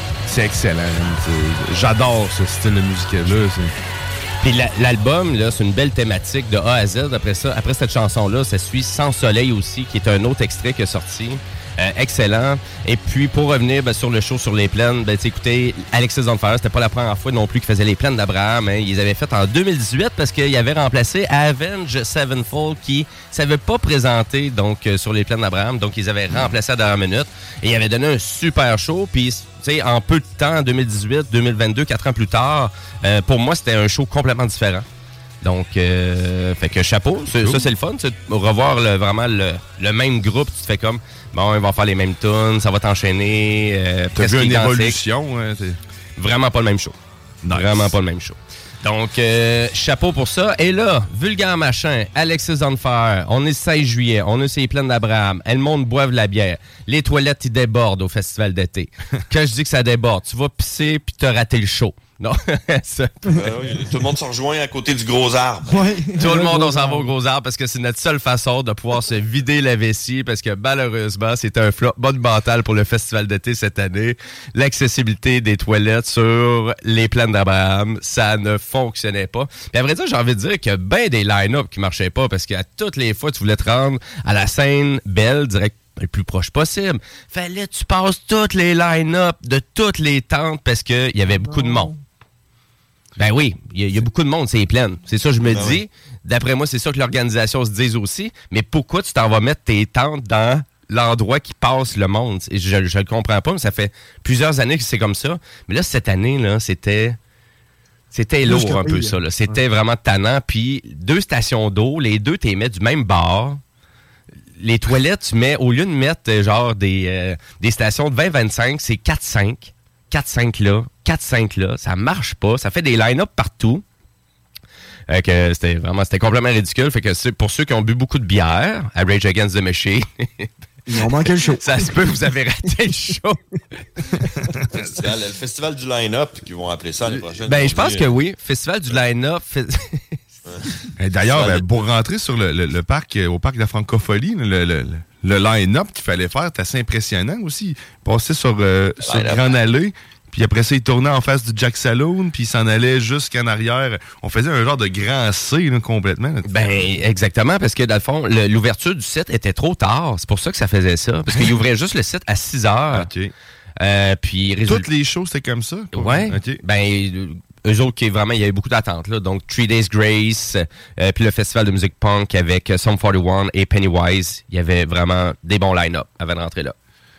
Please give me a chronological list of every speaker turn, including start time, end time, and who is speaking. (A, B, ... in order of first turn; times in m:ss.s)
0:00.2-0:03.7 A
0:04.4-0:34.8 B
0:35.4-0:45.0 B
0:37.3-0:37.7 A
0:44.2-0:45.8 A
0:46.2-0:47.0 B
0:47.4-0:47.9 A
0:47.5-1:03.4 B
1:03.3-1:05.7 C
1:05.7-1:07.1 D
1:06.2-1:31.9 B
1:31.3-1:32.0 D
1:33.2-1:47.2 B
1:35.4-1:35.8 C
1:48.1-1:53.6 B
1:48.4-1:49.6 D
1:54.6-2:03.8 B
2:05.1-2:10.5 B
2:10.8-2:11.9 D
2:11.6-2:13.4 B
2:14.5-2:14.8 A
2:14.9-2:18.1 C
2:17.4-2:20.2 B
2:20.4-2:20.7 C
2:21.0-2:36.9 A
2:21.3-2:21.6 C
2:29.0-2:29.6 C
2:36.5-2:43.1 B
2:42.9-2:43.3 A
2:43.8-2:44.9 B
2:44.6-2:46.6 A
2:45.9-2:56.7 B